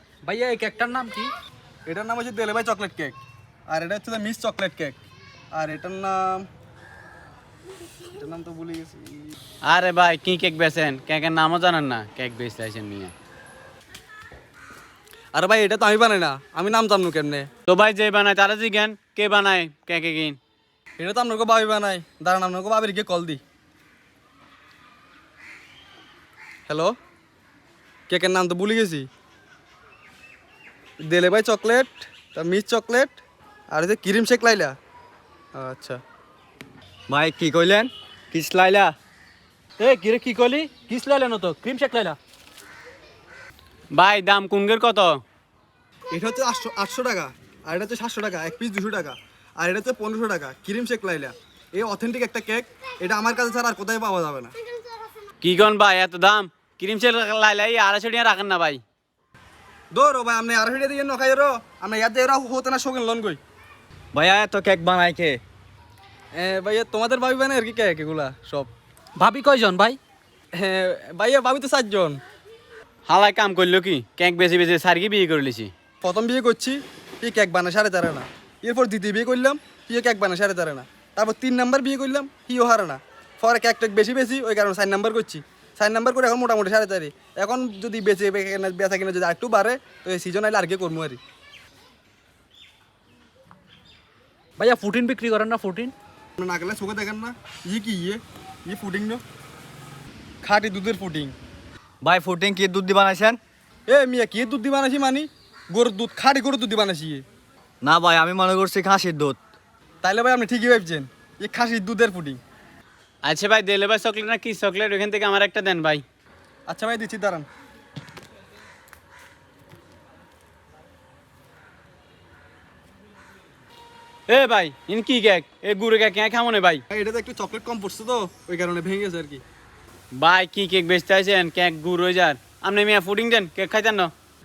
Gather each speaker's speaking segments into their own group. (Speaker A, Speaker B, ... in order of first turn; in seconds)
Speaker A: 0.2-1.3, 39.8-42.2, 69.2-70.0, 94.6-95.9
Speaker B: 1.9-5.0, 5.5-6.5, 8.1-9.3, 15.3-17.5, 21.0-23.4, 26.7-26.9, 28.1-29.1, 31.1-33.2, 33.7-34.7, 35.5-36.0, 46.1-54.5, 59.9-63.4, 66.3-68.7, 70.5-72.2, 76.0-91.2, 96.4-99.2, 100.4-101.3, 103.9-107.2, 110.0-112.4, 116.7-117.4, 126.9-129.4
Speaker C: 9.7-13.1, 17.7-20.4, 43.9-45.2, 55.4-58.8, 73.0-75.7, 113.2-116.0, 124.3-126.8, 130.1-134.1
Speaker D: 37.1-38.9, 64.1-65.4, 102.0-103.4, 107.8-109.4